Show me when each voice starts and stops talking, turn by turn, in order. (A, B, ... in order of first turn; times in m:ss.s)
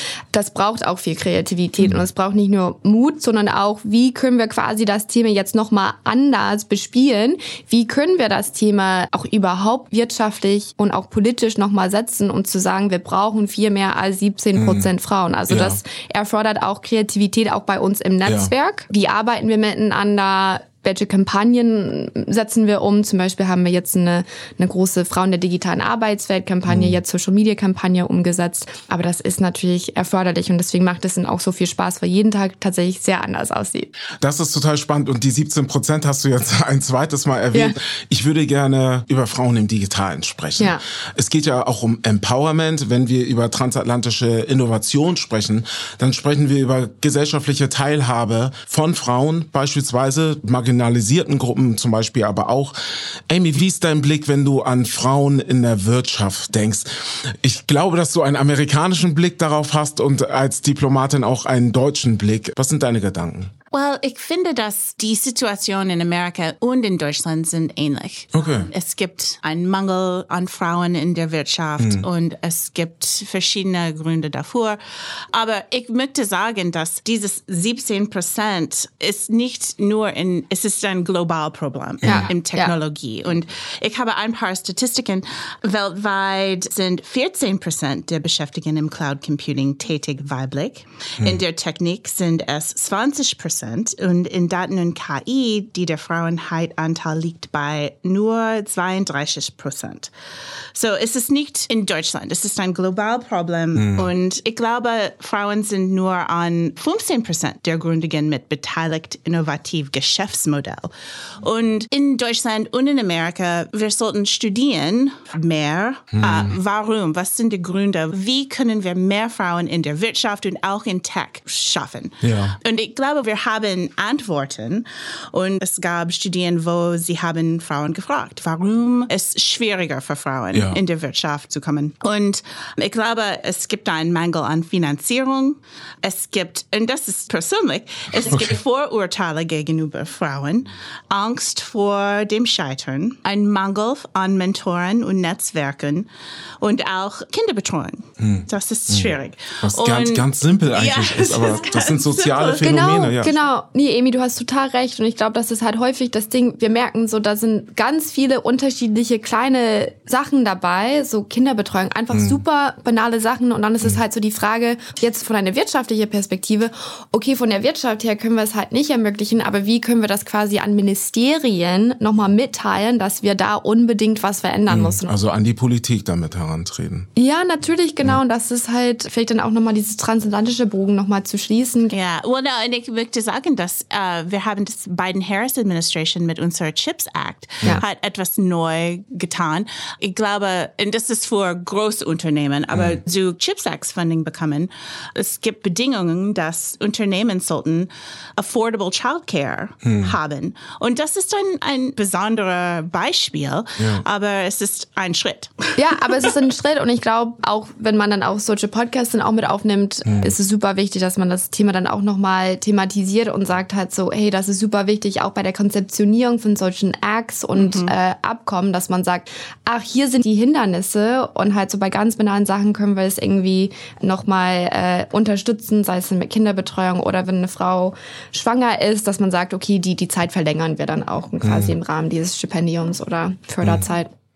0:00.3-0:33.9 A
0:01.8-0:02.0 B
0:14.6-0:14.9 B
0:15.5-0:15.8 B
0:18.2-0:18.5 B
0:26.7-0:27.0 B
0:34.2-0:52.8 B
0:53.3-1:03.5 B
1:03.7-1:14.8 C
1:08.3-1:08.7 B
1:11.8-1:12.0 B
1:15.3-1:40.1 C
1:22.0-1:22.7 A
1:40.7-2:26.0 C
1:43.7-1:44.1 B
1:56.1-1:56.6 B
2:02.2-2:02.6 B
2:10.5-2:10.8 B
2:18.2-2:18.6 B
2:26.6-2:33.3 C
2:28.2-2:33.3 B
2:32.6-2:55.1 A
2:42.1-2:42.4 B
2:54.7-2:57.1 B
2:57.2-3:01.9 A
3:01.9-3:25.5 C
3:12.7-3:13.0 B
3:19.8-3:20.2 B
3:23.8-3:24.0 B
3:25.8-3:54.1 A
3:30.0-3:30.3 B
3:37.6-3:37.9 C
3:51.4-3:51.7 B